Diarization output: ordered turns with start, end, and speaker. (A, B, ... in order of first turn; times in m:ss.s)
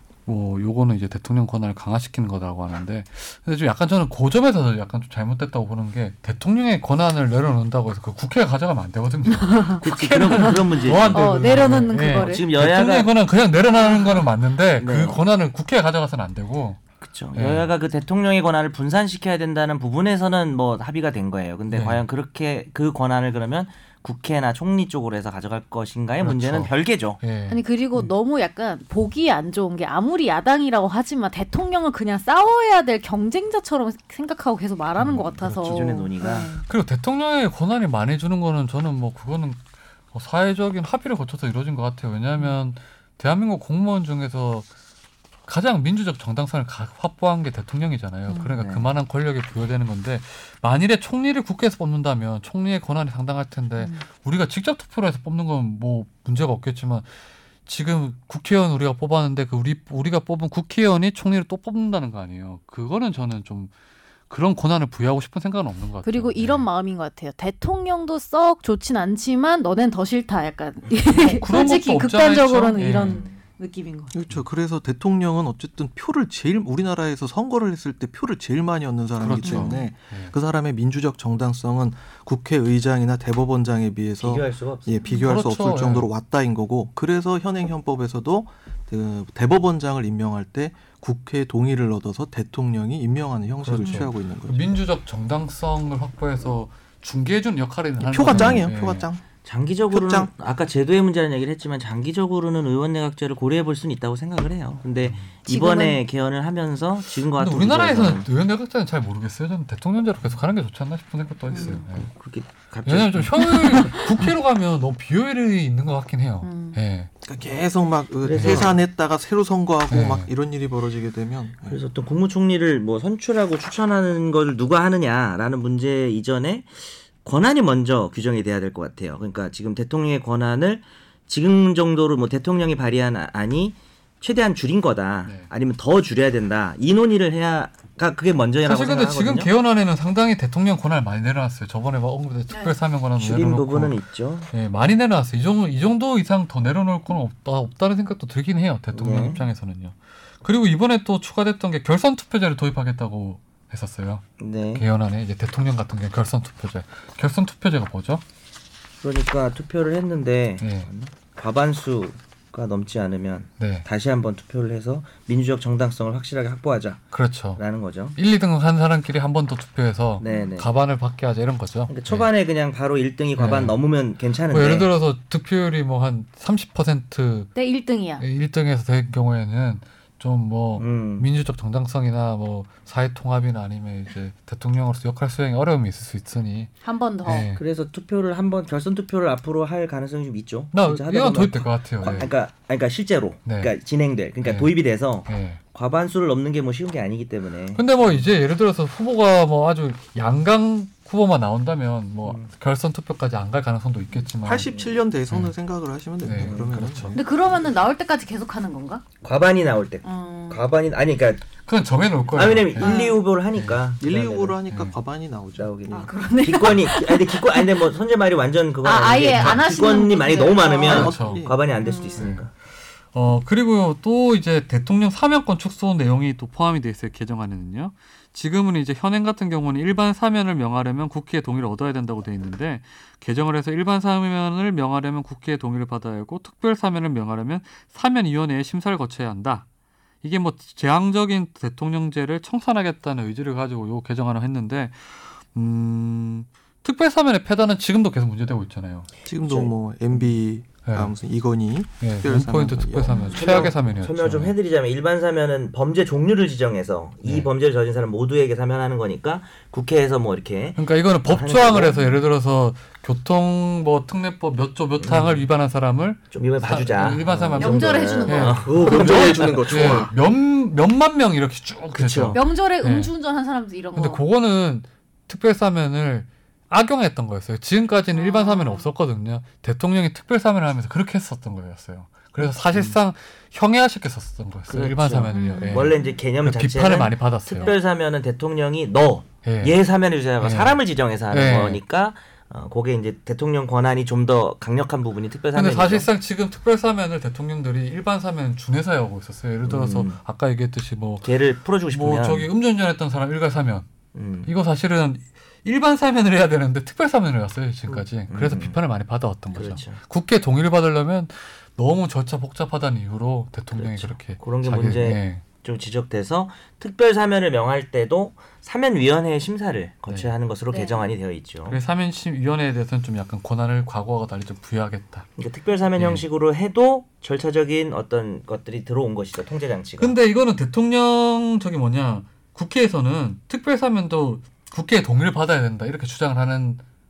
0:00.2-0:16.8 A
0:09.3-0:09.8 B
0:09.8-0:13.1 C
0:11.1-0:12.4 B
0:13.9-0:14.2 B
0:14.8-0:15.2 C
0:17.0-0:27.2 C
0:17.3-0:17.7 A
0:21.7-0:22.0 A
0:26.2-0:27.6 A
0:27.5-0:36.6 B
0:35.0-0:36.0 A
0:35.6-0:36.5 C
0:36.6-0:44.7 A
0:45.4-0:57.1 A
0:48.3-0:48.6 B
0:48.6-0:48.9 C
0:53.8-0:54.0 B
0:57.6-1:03.7 A
1:04.3-1:06.7 A
1:06.0-1:14.1 B
1:11.1-1:13.2 A
1:13.0-1:13.4 C
1:14.1-1:34.8 D
1:19.2-1:20.3 A
1:19.4-1:19.9 B
1:24.2-1:25.1 C
1:25.1-1:26.1 A
1:33.6-1:39.0 A
1:38.0-1:39.2 D
1:38.3-1:38.6 C
1:39.4-1:48.3 C
1:39.9-1:40.3 D
1:45.0-1:45.3 A
1:45.4-1:46.0 B
1:47.3-1:52.1 A
1:51.5-1:53.9 C
1:51.5-1:51.8 B
1:52.8-1:57.1 A
1:53.4-1:54.0 B
1:56.4-1:56.8 B
1:57.2-2:01.8 D
1:58.2-1:58.8 C
1:58.3-1:58.7 A
1:59.9-2:00.3 A
2:01.6-2:19.5 C
2:18.6-2:24.0 A
2:22.5-2:22.7 B
2:23.2-2:24.5 C
2:24.5-2:34.2 A
2:28.9-2:29.4 C
2:34.4-2:34.8 C
2:34.7-2:38.2 A
2:39.0-2:47.0 C
2:40.6-2:40.9 A
2:43.6-2:43.8 A
2:47.1-2:47.6 A
2:47.6-2:48.2 C
2:48.2-2:52.3 A
2:50.2-2:50.7 C
2:50.2-2:50.5 B
2:51.9-2:54.9 C
2:53.4-2:53.8 A
2:54.5-2:57.5 A
2:57.5-2:58.2 B
2:58.2-3:06.7 A
3:00.8-3:01.2 C
3:06.8-3:07.5 B
3:07.2-3:07.6 A
3:07.6-3:18.2 C
3:10.7-3:12.3 A
3:13.4-3:13.7 A
3:14.4-3:15.6 A
3:17.7-3:24.7 A
3:24.4-3:27.2 D
3:24.6-3:24.9 C
3:26.2-3:27.2 A
3:26.4-3:26.8 C
3:27.1-3:29.0 B
3:29.2-3:31.5 C
3:30.0-3:30.6 B
3:31.6-3:33.0 A
3:32.3-3:34.6 C
3:32.8-3:33.2 B
3:33.5-3:33.8 A
3:34.0-3:35.7 D
3:35.6-3:42.5 C
3:35.9-3:37.7 B
3:38.8-3:41.1 B
3:39.3-3:39.7 A
3:40.8-3:41.6 D
3:40.8-3:41.4 A
3:41.8-3:42.3 B
3:42.2-3:42.5 A
3:43.1-3:59.6 A
4:00.2-4:09.1 A
4:09.2-4:13.2 D
4:09.4-4:10.3 C
4:10.8-4:11.1 A
4:12.0-4:14.5 A
4:13.1-4:13.5 B
4:13.3-4:22.1 C
4:20.8-4:33.1 A
4:25.0-4:25.4 C
4:26.3-4:30.1 C
4:27.6-4:28.9 B
4:28.6-4:30.1 D
4:31.9-4:32.4 C
4:32.3-4:34.2 B
4:33.9-4:47.7 A
4:38.1-4:38.9 B
4:42.4-4:43.0 C
4:44.7-4:56.1 C
4:45.3-4:46.2 B
4:49.4-4:49.8 A
4:50.4-4:51.8 A
4:55.5-5:01.3 A
4:59.6-5:00.2 C
5:01.2-5:02.5 C
5:01.9-5:03.9 A
5:04.1-5:04.5 C
5:04.4-5:15.4 A
5:07.9-5:08.8 C
5:09.5-5:10.0 C
5:13.7-5:21.8 C
5:20.7-5:21.1 B
5:21.7-5:25.3 A
5:25.4-5:30.1 C
5:25.9-5:26.2 A
5:30.0-5:36.8 A